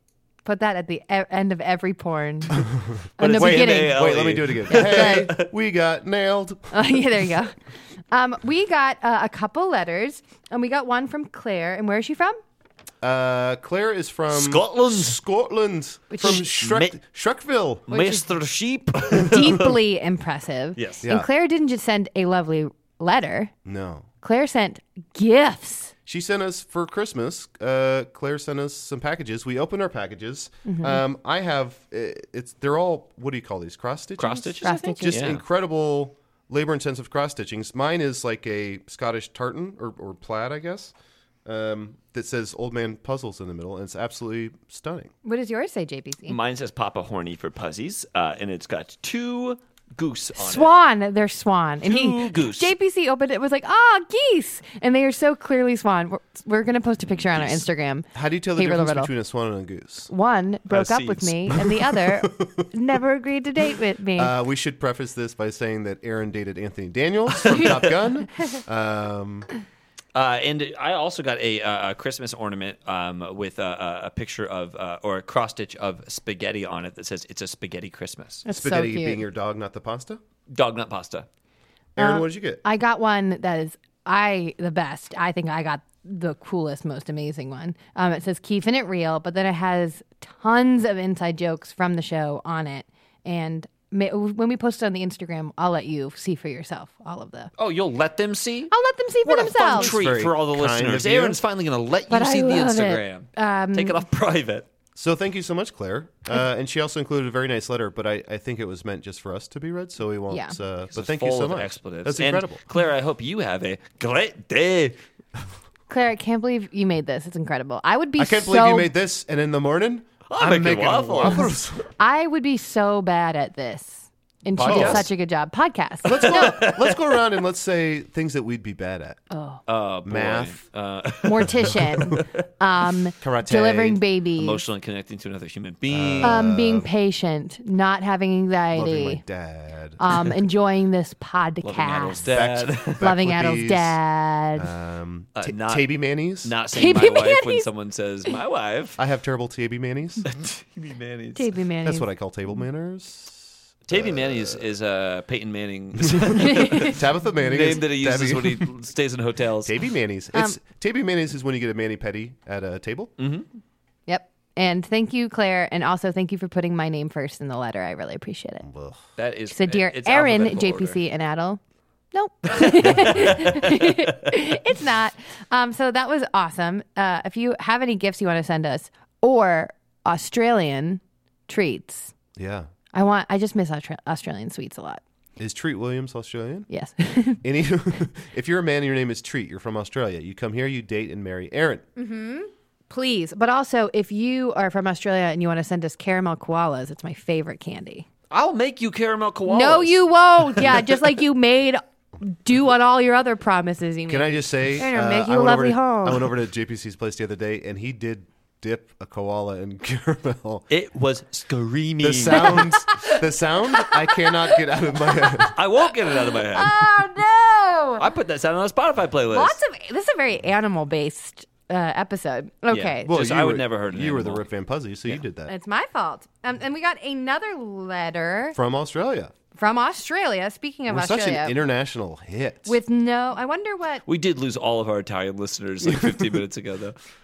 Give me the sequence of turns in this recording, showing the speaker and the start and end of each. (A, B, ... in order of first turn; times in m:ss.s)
0:00.4-0:02.6 A
0:03.2-0:05.3 A
0:03.2-0:05.5 B
0:03.3-0:06.7 C
0:06.7-0:07.5 A
0:08.1-0:12.4 A
0:13.0-0:17.9 C
0:14.3-0:15.2 B
0:16.1-0:16.4 A
0:16.2-0:17.0 B
0:17.9-0:19.7 B
0:17.9-0:18.3 A
0:19.2-0:23.5 A
0:20.8-0:21.0 B
0:21.0-0:21.3 C
0:23.6-0:24.1 C
0:24.2-0:25.9 A
0:26.0-0:40.9 C
0:30.6-0:31.0 A
0:34.2-0:35.4 B
0:34.6-0:35.2 A
0:41.4-0:45.1 C
0:45.2-0:46.4 A
0:46.3-0:50.7 B
0:50.4-0:59.1 A
0:51.8-0:52.7 B
0:57.4-0:57.6 B
0:58.1-1:00.1 C
1:00.1-1:04.3 A
1:00.7-1:01.6 B
1:02.0-1:02.6 C
1:04.2-1:09.5 C
1:07.5-1:07.8 B
1:10.1-1:18.4 B
1:18.4-1:19.2 A
1:18.5-1:20.2 C
1:20.5-1:21.3 B
1:22.0-1:22.6 C
1:22.0-1:37.5 A
1:37.6-1:38.7 B
1:38.7-1:39.9 A
1:39.2-1:44.6 B
1:39.7-1:41.4 C
1:42.1-1:44.0 A
1:45.0-1:52.6 C
1:50.3-1:50.5 A
1:50.9-1:55.0 B
1:55.9-1:58.9 A
1:58.2-2:01.8 C
2:00.3-2:01.6 B
2:01.2-2:06.7 A
2:04.6-2:05.1 B
2:04.6-2:05.1 C
2:06.0-2:09.2 C
2:06.1-2:07.2 B
2:09.3-2:09.6 A
2:09.7-2:12.2 B
2:10.0-2:10.6 C
2:11.2-2:14.6 A
2:13.2-2:14.0 C
2:14.4-2:16.4 B
2:15.9-2:16.9 C
2:16.2-2:19.2 A
2:18.7-2:20.0 C
2:20.0-2:22.2 A
2:21.6-2:23.0 B
2:22.2-2:24.0 C
2:23.0-2:24.7 A
2:24.6-2:26.5 C
2:25.4-2:29.0 B
2:26.7-2:27.7 A
2:29.0-2:30.3 C
2:30.3-2:31.5 B
2:31.3-2:32.1 A
2:31.8-2:34.6 C
2:33.9-2:39.8 B
2:36.0-2:38.7 C
2:36.6-2:37.0 A
2:39.6-2:43.1 C
2:40.3-2:40.6 A
2:43.2-2:43.4 B
2:44.1-2:48.6 A
2:48.6-2:49.0 C
2:49.2-2:51.0 B
2:49.5-2:51.6 A
2:52.1-3:02.1 A
2:52.6-2:53.8 B
3:02.4-3:02.7 C
3:02.9-3:05.0 A
3:05.4-3:06.7 C
3:06.7-3:07.4 A
3:07.4-3:11.8 C
3:12.0-3:18.0 A
3:18.3-3:20.0 B
3:19.4-3:26.3 A
3:24.1-3:30.6 C
3:30.7-3:32.7 B
3:32.0-3:35.6 C
3:35.5-3:36.8 B
3:36.3-3:38.1 A
3:38.0-3:39.6 B
3:39.3-3:43.1 A
3:42.7-3:44.4 B
3:43.0-3:45.5 C
3:45.4-3:48.6 A
3:48.5-3:49.3 C
3:49.5-3:51.6 A
3:50.9-3:52.8 C
3:52.6-3:54.0 A
3:54.0-3:57.0 B